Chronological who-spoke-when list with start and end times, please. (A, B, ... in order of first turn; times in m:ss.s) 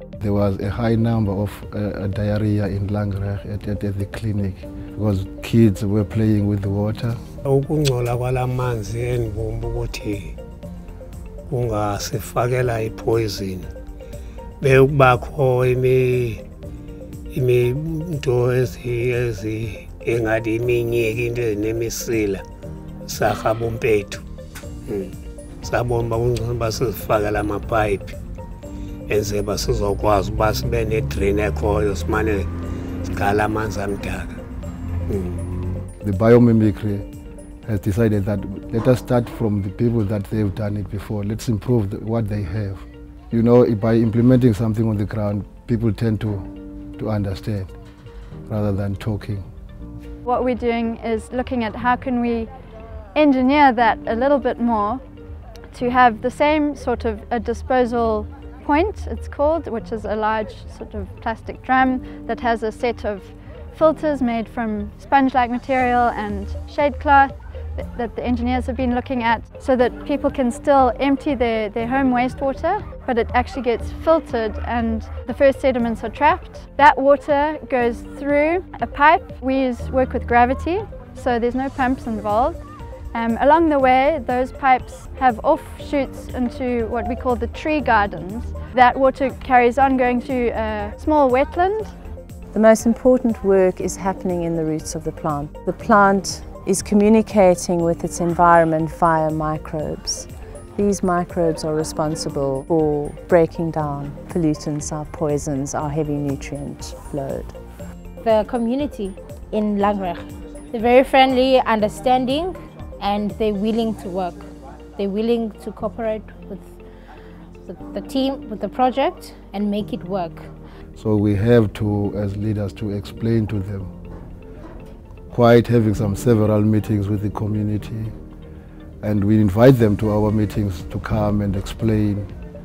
0:00.2-0:07.2 A
0:07.4-0:10.4 B
0:11.5-0:13.7 B
0:14.6-0:16.4 B
0:17.3-0:22.4 B
0:23.1-0:24.2 B
0:24.9-0:28.2 B
0:29.1-0:32.5 B
0:33.0-0:34.3 B
0:35.1-0:35.4 B
0:36.0-0:37.0 A
0:37.6-0:46.4 A
0:47.0-0:47.7 A
0:48.5-0:49.4 A
0:50.2-0:52.5 C
0:53.2-0:55.0 C
0:55.7-1:22.6 C
1:23.1-1:31.9 C
1:32.5-1:47.6 D
1:48.2-1:56.8 E
1:57.6-2:00.5 E
2:01.0-2:03.9 A
2:05.3-2:08.1 A
2:09.0-2:12.3 A